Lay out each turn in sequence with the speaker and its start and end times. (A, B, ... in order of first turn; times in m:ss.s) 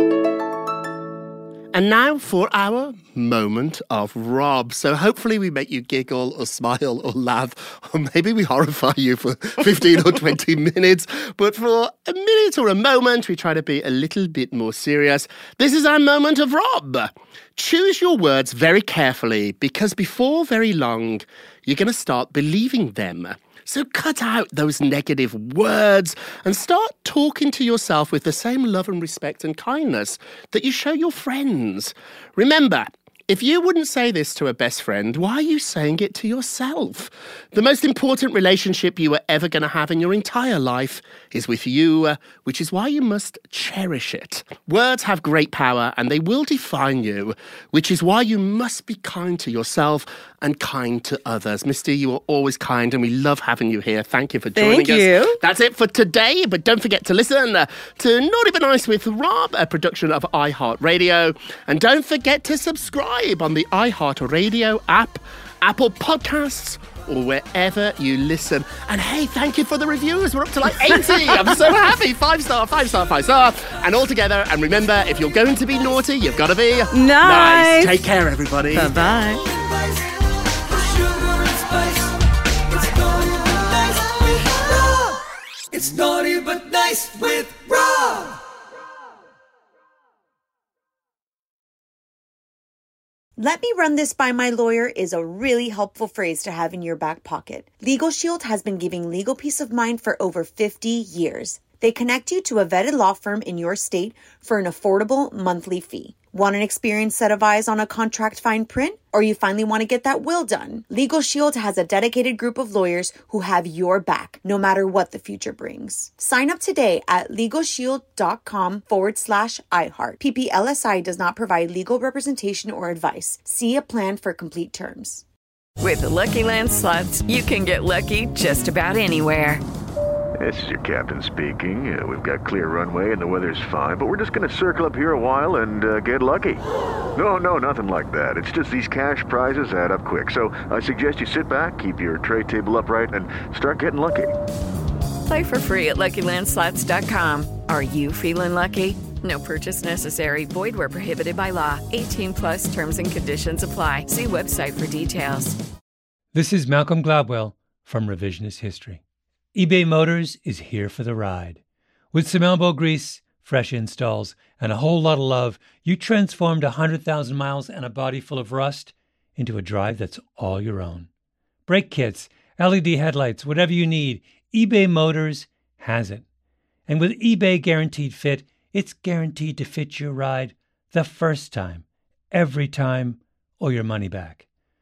0:01.7-1:19.0 A
0:54.6-0:55.4 B
1:16.9-1:17.9 B
1:18.7-1:19.4 B
1:19.3-1:28.4 C
1:33.4-2:05.2 D
2:05.8-2:09.6 E
2:10.4-2:16.6 F
2:17.2-2:24.3 F
2:25.3-2:35.6 E
2:36.3-2:39.0 G
2:39.6-2:41.6 G
2:42.1-2:51.1 G
2:51.7-2:56.2 G
2:56.9-3:04.5 G